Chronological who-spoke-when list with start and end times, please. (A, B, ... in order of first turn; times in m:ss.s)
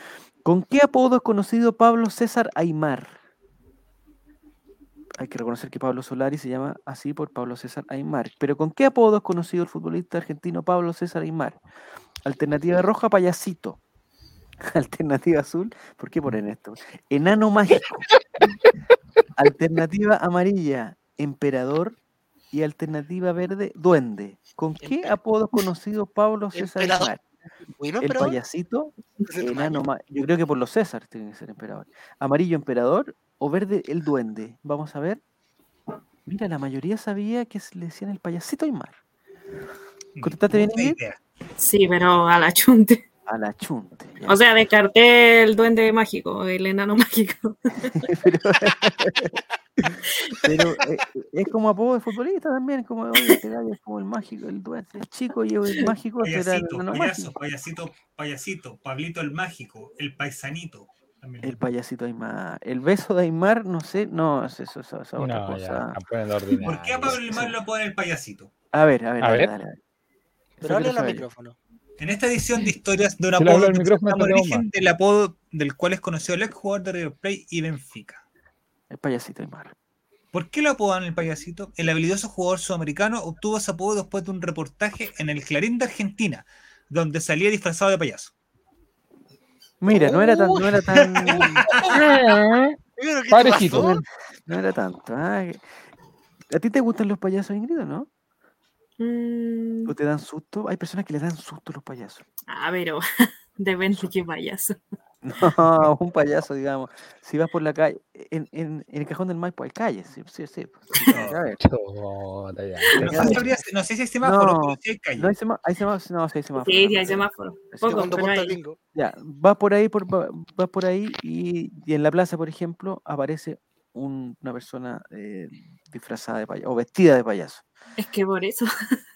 0:00.4-0:03.2 A
0:05.2-0:11.6 A
0:12.2-0:13.8 A
0:14.6-0:18.0 A
0:19.4-0:22.0 A
0:22.5-0:27.2 A
0:24.8-0:25.1 B
0:26.5-0:27.1 B
0:27.8-0:28.4 B
0:28.0-0:35.2 A
0:29.3-0:29.8 B
0:36.2-0:39.0 A
0:40.1-0:41.2 C
0:40.2-0:41.0 A
0:41.6-0:43.0 D
0:43.2-0:44.4 A
0:44.2-0:48.1 D
0:48.0-0:57.3 A
0:56.2-1:01.6 C
1:01.4-1:06.0 A
1:05.2-1:07.2 E
1:06.6-1:08.5 C
1:07.0-1:07.6 A
1:08.7-1:09.8 A
1:09.2-1:09.5 E
1:10.6-1:11.2 A
1:10.6-1:11.6 B
1:12.0-1:18.2 C
1:13.4-1:14.6 E
1:18.9-1:19.7 A
1:20.3-1:28.3 C
1:29.8-1:31.6 A
1:29.9-1:32.0 B
1:31.4-1:32.0 C
1:31.9-1:32.8 E
1:33.0-1:33.9 B
1:33.3-1:34.0 E
1:33.7-1:35.6 A
1:36.5-1:38.1 A
1:39.0-1:39.9 D
1:39.8-1:42.2 A
1:42.5-1:44.8 D
1:45.2-1:51.6 A
1:51.1-1:51.4 C
1:51.6-1:53.4 E
1:53.0-1:55.3 C
1:53.0-1:53.6 A
1:54.2-1:58.3 A
1:56.6-1:58.6 D
1:57.9-1:58.8 B
1:58.9-2:07.6 A
2:08.0-2:09.0 D